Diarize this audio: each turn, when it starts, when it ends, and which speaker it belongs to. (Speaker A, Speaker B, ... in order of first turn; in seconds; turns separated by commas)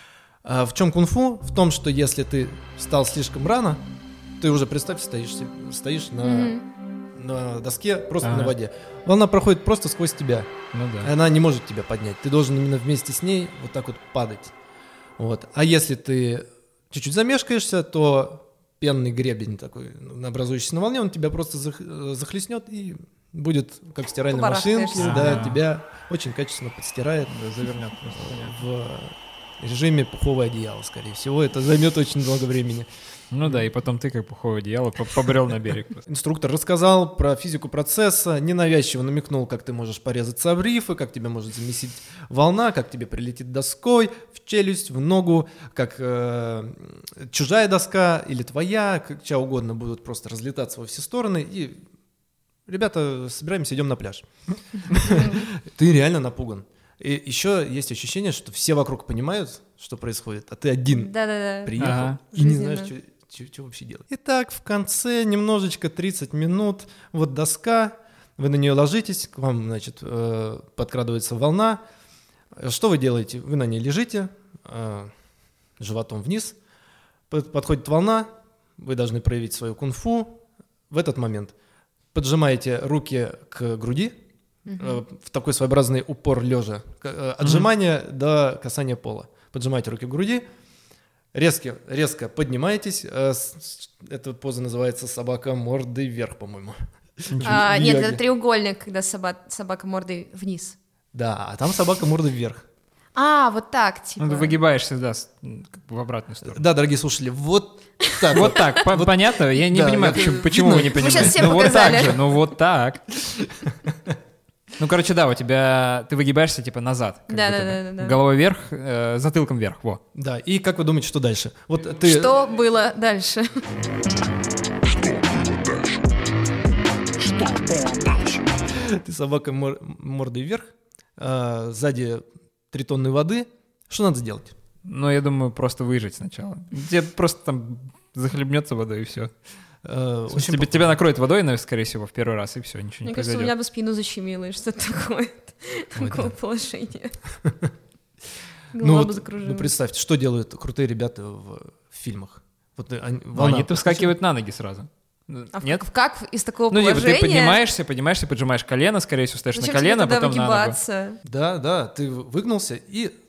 Speaker A: 0.4-3.8, Speaker A: 4.4-6.6, Speaker B: 6.2-6.7, Speaker A: 7.2-10.5, Speaker C: 8.2-8.5, Speaker C: 10.7-11.1, Speaker A: 11.0-14.5, Speaker A: 15.2-27.3, Speaker B: 24.3-25.5, Speaker C: 25.0-25.6, Speaker C: 27.3-28.6, Speaker A: 28.1-32.9, Speaker C: 33.3-36.0, Speaker A: 36.1-51.8, Speaker A: 52.7-54.3, Speaker A: 54.9-71.8, Speaker B: 55.1-55.4, Speaker B: 60.9-62.9, Speaker C: 61.8-62.2, Speaker A: 72.5-75.1, Speaker A: 75.8-76.6, Speaker A: 77.3-81.5, Speaker A: 82.1-84.2, Speaker B: 84.7-85.0, Speaker A: 84.8-90.5, Speaker A: 91.3-98.2, Speaker B: 97.4-100.8, Speaker A: 101.1-102.6, Speaker B: 103.2-104.5, Speaker C: 104.2-106.6, Speaker A: 106.4-111.8, Speaker B: 108.0-108.6, Speaker C: 108.3-113.2, Speaker B: 111.0-112.2, Speaker A: 113.7-114.1, Speaker C: 114.8-120.0, Speaker B: 117.3-118.2, Speaker A: 120.1-122.4, Speaker B: 122.0-123.7, Speaker A: 128.7-134.6, Speaker C: 134.9-139.3, Speaker A: 139.8-141.0, Speaker C: 140.3-143.5, Speaker B: 143.1-147.2, Speaker A: 146.0-146.3, Speaker A: 147.4-147.7, Speaker B: 148.7-149.7, Speaker A: 148.8-154.1, Speaker C: 153.3-155.8, Speaker B: 155.6-157.6, Speaker C: 156.7-160.8, Speaker B: 159.6-161.2, Speaker A: 161.2-163.1